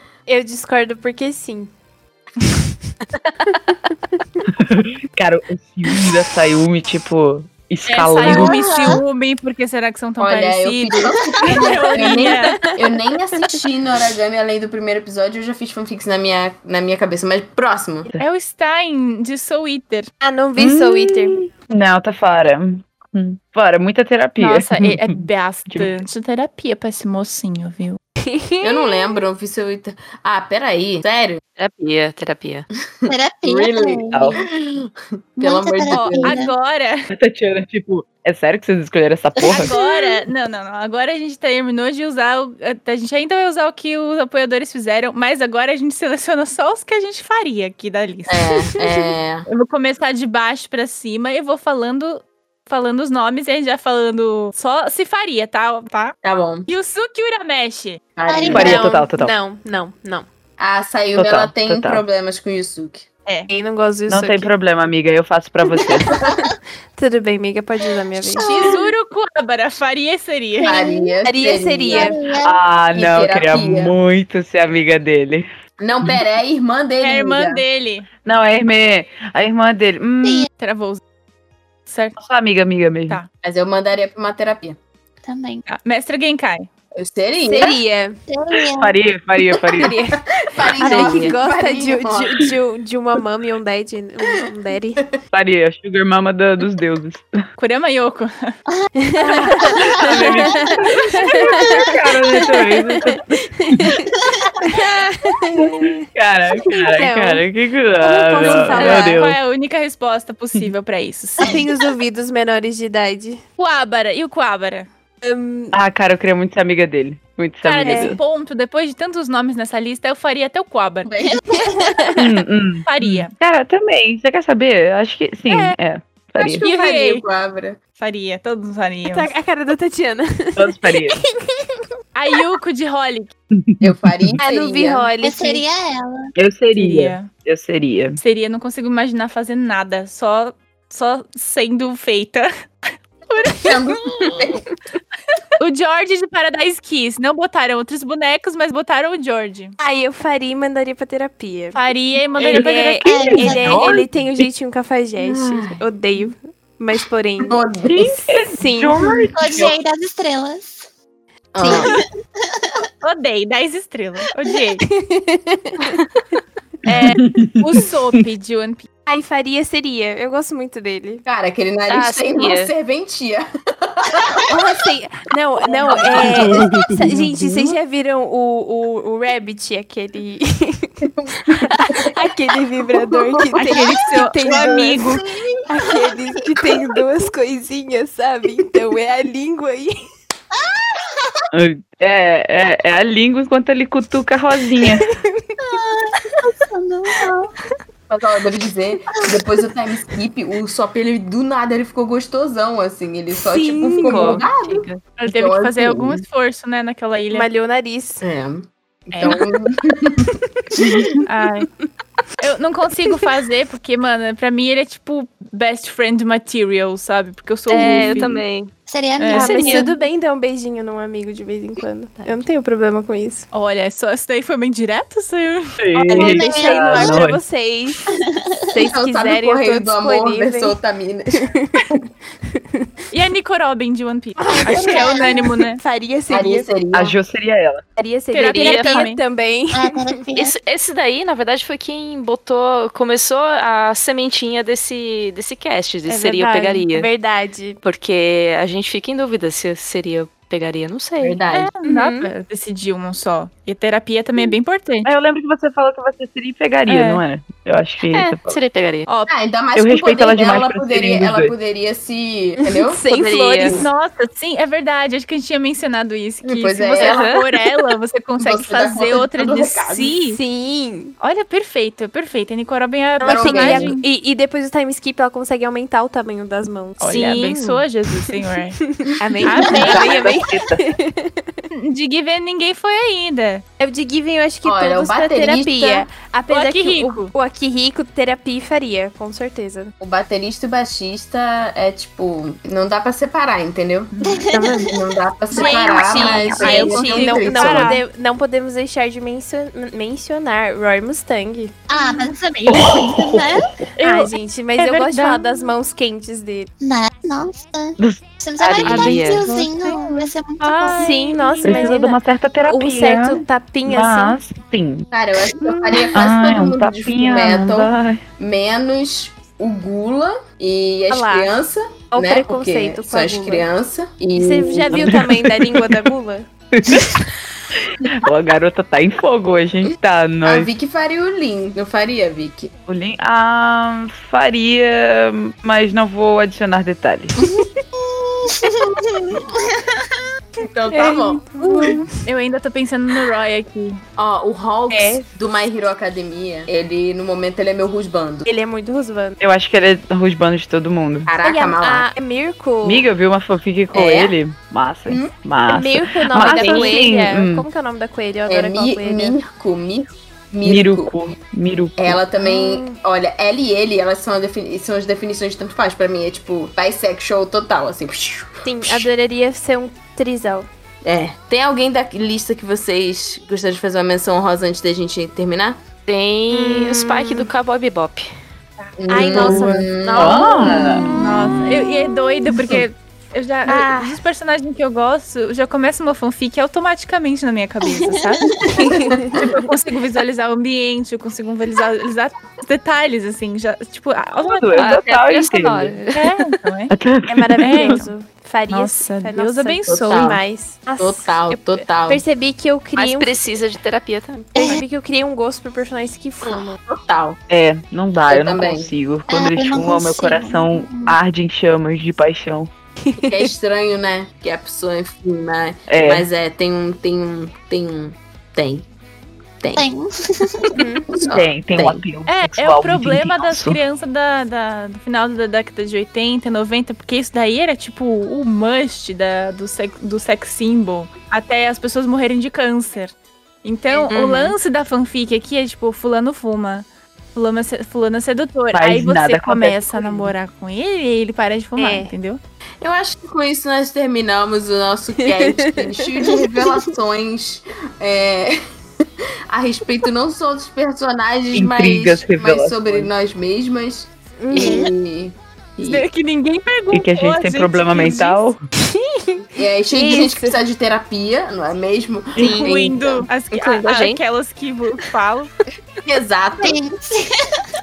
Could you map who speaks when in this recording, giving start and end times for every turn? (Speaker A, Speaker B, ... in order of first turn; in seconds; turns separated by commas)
Speaker A: 0.3-1.7, Speaker B: 4.5-9.0, Speaker C: 7.9-12.6, Speaker D: 8.2-9.0, Speaker E: 10.2-18.1, Speaker A: 11.7-12.6, Speaker C: 18.2-20.1, Speaker A: 20.2-21.4, Speaker B: 20.6-26.0, Speaker C: 24.4-28.0, Speaker A: 28.2-29.2, Speaker E: 28.6-31.4, Speaker F: 31.6-32.7, Speaker E: 33.0-36.4, Speaker D: 33.1-34.4, Speaker B: 34.1-34.4, Speaker D: 35.4-36.5, Speaker C: 35.9-37.1, Speaker B: 37.1-39.7, Speaker D: 39.4-40.0, Speaker C: 39.4-48.5, Speaker E: 48.3-49.5, Speaker C: 49.5-56.1, Speaker E: 56.2-56.7, Speaker C: 56.7-58.0, Speaker E: 58.2-58.8, Speaker D: 58.3-58.8, Speaker A: 58.5-60.2, Speaker B: 58.5-59.3, Speaker E: 60.6-63.1, Speaker B: 61.1-62.0, Speaker A: 63.5-64.5, Speaker B: 64.1-66.1, Speaker A: 67.0-68.4, Speaker D: 68.3-68.9, Speaker C: 68.4-70.8, Speaker D: 70.6-71.1, Speaker E: 70.7-72.1, Speaker A: 71.2-72.2, Speaker D: 71.9-72.6, Speaker B: 72.4-75.5, Speaker E: 72.9-73.9, Speaker E: 75.8-77.6, Speaker C: 77.0-78.1, Speaker B: 78.2-80.5, Speaker D: 80.2-80.5, Speaker C: 80.6-81.0, Speaker C: 81.8-82.2, Speaker B: 82.2-83.2, Speaker E: 83.4-84.8, Speaker D: 85.2-85.6, Speaker C: 85.7-86.7, Speaker E: 86.9-87.8, Speaker A: 87.4-88.2, Speaker D: 88.3-89.0, Speaker B: 88.7-89.9, Speaker A: 89.8-95.0, Speaker E: 90.5-92.5, Speaker C: 90.8-91.2, Speaker B: 95.3-97.4, Speaker C: 97.6-98.5, Speaker D: 98.7-100.7, Speaker A: 99.0-104.1, Speaker C: 100.0-100.7, Speaker B: 100.0-103.9, Speaker A: 104.6-106.0, Speaker B: 105.5-109.4, Speaker A: 106.6-107.5, Speaker A: 108.0-109.2, Speaker C: 108.4-111.6, Speaker A: 111.4-113.4, Speaker C: 113.6-114.9, Speaker A: 115.2-115.8, Speaker B: 115.7-118.2, Speaker A: 117.6-118.2, Speaker C: 117.7-121.1, Speaker E: 121.0-121.6, Speaker A: 121.5-122.2, Speaker B: 122.2-126.6, Speaker C: 122.8-123.3, Speaker C: 125.5-125.7, Speaker E: 126.4-127.8, Speaker C: 126.6-127.2, Speaker C: 128.0-129.3, Speaker A: 129.0-131.1, Speaker B: 130.6-131.2, Speaker C: 132.1-133.3, Speaker B: 133.5-134.4, Speaker E: 133.8-135.1, Speaker A: 134.4-135.6, Speaker D: 135.2-136.3, Speaker B: 136.3-138.2, Speaker C: 136.7-137.3, Speaker C: 138.2-142.5, Speaker C: 143.3-144.0, Speaker E: 143.6-144.7, Speaker C: 145.6-149.7, Speaker A: 149.8-151.8, Speaker C: 151.7-153.1, Speaker A: 152.4-159.2, Speaker B: 152.5-154.4, Speaker D: 153.0-154.0, Speaker E: 155.2-155.8, Speaker E: 157.4-158.0, Speaker B: 157.8-159.8, Speaker D: 159.3-160.9, Speaker E: 161.5-161.9, Speaker A: 161.6-161.9, Speaker D: 161.6-162.7, Speaker C: 163.0-164.8, Speaker A: 164.8-166.0, Speaker C: 166.8-168.9, Speaker B: 166.9-168.2, Speaker A: 169.1-171.2, Speaker E: 171.2-174.5, Speaker F: 171.9-172.7, Speaker A: 174.5-185.1, Speaker E: 175.7-176.6, Speaker B: 176.1-177.7, Speaker E: 183.2-183.8, Speaker C: 183.5-185.2, Speaker A: 185.7-189.9, Speaker B: 191.5-195.0, Speaker A: 194.8-195.5, Speaker D: 195.6-197.5, Speaker E: 198.1-206.2, Speaker D: 199.1-199.4, Speaker A: 203.4-204.4, Speaker F: 204.0-205.2, Speaker C: 205.2-207.5, Speaker A: 207.3-208.2, Speaker E: 208.2-211.0, Speaker C: 209.1-209.4, Speaker B: 210.8-211.1, Speaker C: 211.2-211.7, Speaker C: 212.4-218.4, Speaker A: 217.7-218.3, Speaker F: 217.7-218.7, Speaker D: 218.9-219.8, Speaker C: 219.2-219.8, Speaker F: 219.3-219.9, Speaker A: 219.3-223.5, Speaker F: 222.2-222.5, Speaker C: 223.5-225.8, Speaker B: 225.8-227.4, Speaker A: 225.9-228.1, Speaker D: 226.1-227.2, Speaker D: 228.1-228.6, Speaker A: 228.7-230.8, Speaker E: 228.8-232.0, Speaker A: 231.3-231.8, Speaker A: 232.5-232.8, Speaker C: 233.1-235.8, Speaker A: 234.4-236.7, Speaker D: 235.0-235.3, Speaker E: 236.3-237.2, Speaker B: 236.9-237.8, Speaker A: 238.0-240.1, Speaker C: 238.3-239.2, Speaker F: 238.5-239.1, Speaker D: 239.7-240.6, Speaker F: 240.3-247.1, Speaker A: 246.1-247.8, Speaker F: 247.8-251.4, Speaker E: 251.2-251.7, Speaker C: 251.5-255.1, Speaker A: 251.8-252.3, Speaker B: 255.0-258.6, Speaker C: 256.9-257.2, Speaker F: 258.1-259.1, Speaker E: 259.3-263.0, Speaker B: 259.8-261.5, Speaker A: 262.6-263.9, Speaker F: 263.1-263.8, Speaker C: 263.6-270.4, Speaker E: 266.4-267.3, Speaker F: 267.0-267.4, Speaker E: 268.4-270.1, Speaker A: 270.2-271.1, Speaker C: 271.2-274.1, Speaker A: 273.2-281.6, Speaker E: 273.2-273.9, Speaker C: 277.0-278.8, Speaker F: 277.1-277.7, Speaker C: 279.4-280.3, Speaker B: 279.6-280.8, Speaker C: 281.7-283.6, Speaker A: 283.8-289.9, Speaker E: 284.6-286.1, Speaker C: 286.5-287.3, Speaker E: 290.0-294.1, Speaker C: 294.1-294.5, Speaker D: 294.2-294.9, Speaker A: 294.5-294.9, Speaker E: 294.8-298.0, Speaker A: 295.5-302.2, Speaker C: 295.5-298.0, Speaker D: 301.9-303.7, Speaker B: 302.6-303.6, Speaker C: 304.0-305.7, Speaker A: 304.0-306.7, Speaker D: 306.8-311.1, Speaker F: 308.6-309.5, Speaker C: 308.9-312.0, Speaker A: 310.9-314.4, Speaker B: 311.6-315.1, Speaker E: 315.1-325.3, Speaker A: 315.6-316.2, Speaker B: 316.1-318.2, Speaker A: 321.1-321.5, Speaker A: 322.1-323.7, Speaker A: 324.3-327.0, Speaker B: 324.9-326.1, Speaker B: 326.7-327.1, Speaker B: 327.8-330.7, Speaker E: 330.4-332.7, Speaker B: 332.9-337.4, Speaker D: 338.4-339.7, Speaker E: 340.6-341.4, Speaker A: 340.9-342.2, Speaker C: 340.9-344.0, Speaker E: 344.2-348.5, Speaker A: 344.9-345.2, Speaker A: 348.4-349.4, Speaker B: 349.4-351.3, Speaker E: 351.3-352.1, Speaker A: 351.4-353.1, Speaker B: 352.8-357.6, Speaker E: 353.9-354.3, Speaker A: 355.7-359.4, Speaker E: 356.3-357.0, Speaker E: 358.5-361.1, Speaker B: 360.6-362.2, Speaker E: 362.0-369.1, Speaker A: 362.4-363.0, Speaker A: 368.6-370.7, Speaker E: 371.0-375.8, Speaker F: 376.1-378.3, Speaker A: 376.5-377.5, Speaker C: 378.8-379.7, Speaker E: 379.0-381.2, Speaker A: 379.1-380.9, Speaker B: 380.1-381.1, Speaker C: 381.1-395.0, Speaker A: 383.7-384.2, Speaker D: 388.4-388.6, Speaker A: 388.7-389.4, Speaker E: 389.1-389.4, Speaker B: 394.4-396.0, Speaker F: 394.7-396.3, Speaker C: 396.1-396.9, Speaker B: 396.9-398.0, Speaker A: 397.3-403.4, Speaker C: 397.6-398.1, Speaker C: 398.7-400.4, Speaker E: 400.0-400.4, Speaker E: 401.0-402.2, Speaker F: 403.0-404.7, Speaker A: 404.5-406.8, Speaker E: 406.4-407.4, Speaker B: 407.5-412.7, Speaker E: 408.3-408.9, Speaker D: 409.3-411.1, Speaker A: 413.1-413.4, Speaker E: 413.2-418.9, Speaker B: 415.9-416.2, Speaker E: 419.6-419.9, Speaker D: 419.7-420.7, Speaker A: 420.7-421.1, Speaker E: 420.8-422.0, Speaker B: 421.2-423.8, Speaker C: 422.2-442.4, Speaker E: 434.1-434.5, Speaker B: 438.7-440.3, Speaker A: 441.8-442.1, Speaker E: 442.8-448.6, Speaker A: 445.2-446.3, Speaker E: 449.5-456.0, Speaker B: 451.5-453.1, Speaker A: 454.4-454.9, Speaker D: 454.6-454.9, Speaker C: 455.8-458.4, Speaker B: 456.9-458.6, Speaker A: 458.8-460.6, Speaker E: 459.6-463.3, Speaker A: 462.4-462.7, Speaker C: 462.6-465.6, Speaker F: 463.8-464.2, Speaker E: 466.0-466.8, Speaker D: 466.6-467.6